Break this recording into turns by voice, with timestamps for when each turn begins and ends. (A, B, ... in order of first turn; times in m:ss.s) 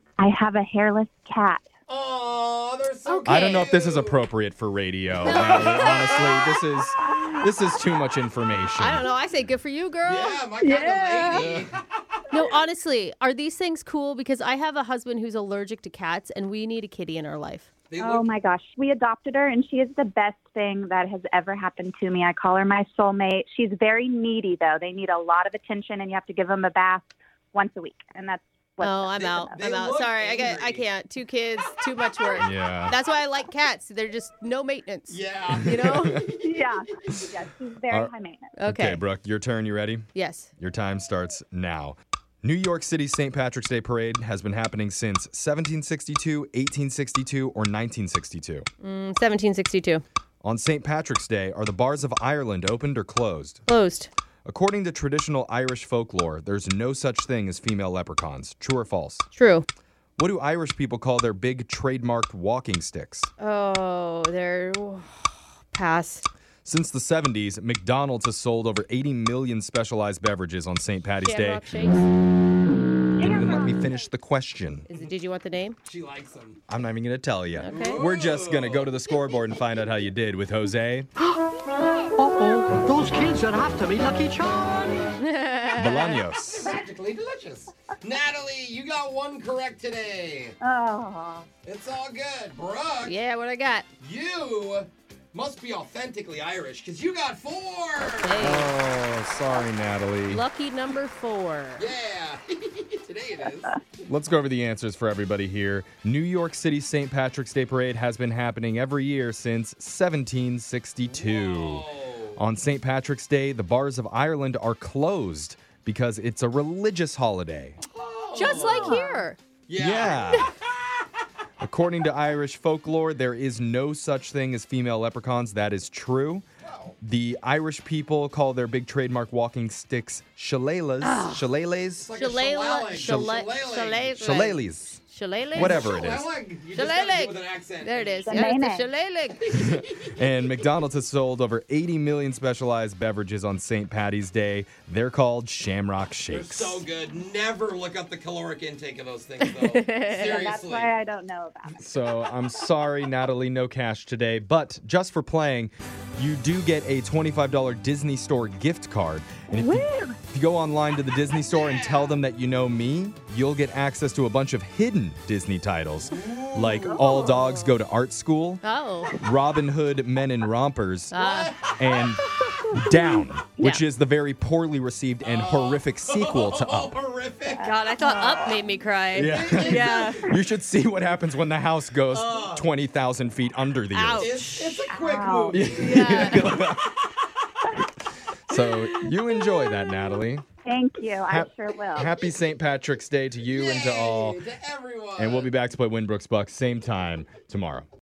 0:00.2-0:01.6 A
0:01.9-0:04.2 B
0:03.0-0:03.7 C
0:03.2-0:09.0 D
0:05.2-0:06.6 C
0:05.2-0:06.2 B
0:08.8-0:10.7 C
0:10.0-0:12.5 B
0:10.6-0:11.5 A
0:11.3-0:11.7 D
0:12.3-0:17.7 C
0:17.9-0:18.3 B
0:18.0-0:29.4 A
0:28.8-0:36.2 C
0:29.2-0:30.9 B
0:32.4-0:32.9 D
0:35.1-0:36.7 B
0:35.5-0:36.3 D
0:36.4-0:38.5 A
0:38.6-0:39.0 C
0:38.6-0:48.7 D
0:40.1-0:40.5 C
0:48.8-0:50.0 C
0:50.4-0:53.6 D
0:53.7-0:54.1 C
0:54.4-0:59.3 D
0:59.3-0:59.6 C
1:00.2-1:03.3 D
1:03.4-1:06.3 C
1:06.6-1:12.0 D
1:11.2-1:12.1 C
1:13.2-1:13.9 A
1:13.2-1:14.9 D
1:14.9-1:15.8 C
1:15.8-1:16.6 B
1:16.7-1:21.1 D
1:17.6-1:18.1 C
1:17.6-1:19.0 B
1:22.2-1:25.0 E
1:25.2-1:26.2 C
1:25.8-1:26.7 D
1:26.5-1:30.6 B
1:30.6-1:31.5 A
1:31.6-1:33.2 B
1:33.0-1:33.9 C
1:34.0-1:38.6 B
1:38.0-1:38.7 C
1:38.4-1:40.4 D
1:40.3-1:41.9 C
1:41.8-1:43.8 B
1:44.0-1:57.8 D
1:51.1-1:52.4 B
1:57.9-1:59.0 B
1:58.3-1:59.4 C
1:58.5-1:59.2 A
1:59.7-2:00.9 B
1:59.8-2:00.5 D
2:01.6-2:06.4 D
2:06.6-2:06.9 B
2:07.0-2:12.1 D
2:11.0-2:11.4 C
2:12.0-2:14.1 B
2:12.2-2:16.0 C
2:13.0-2:13.4 D
2:14.2-2:15.0 D
2:15.5-2:16.3 D
2:15.5-2:18.4 B
2:16.7-2:19.5 C
2:18.2-2:18.9 A
2:19.5-2:20.1 B
2:19.5-2:26.8 D
2:26.3-2:30.9 B
2:29.4-2:30.5 C
2:30.3-2:31.8 A
2:31.8-2:48.6 D
2:39.5-2:40.2 A
2:41.5-2:42.2 B
2:46.1-2:47.0 B
2:46.9-2:47.4 A
2:48.6-2:49.2 C
2:49.2-2:51.2 D
2:51.1-2:51.6 C
2:51.1-2:52.8 B
2:51.8-2:56.9 D
2:55.2-2:58.6 B
2:57.5-2:58.5 A
2:57.6-3:00.3 C
2:59.1-3:04.3 D
2:59.1-3:00.3 B
3:02.1-3:02.7 B
3:03.9-3:04.9 C
3:04.2-3:06.6 B
3:04.9-3:05.6 A
3:05.5-3:07.0 D
3:05.8-3:06.5 C
3:08.5-3:10.4 D
3:10.6-3:12.1 A
3:11.3-3:14.4 D
3:13.4-3:15.5 B
3:15.2-3:17.9 D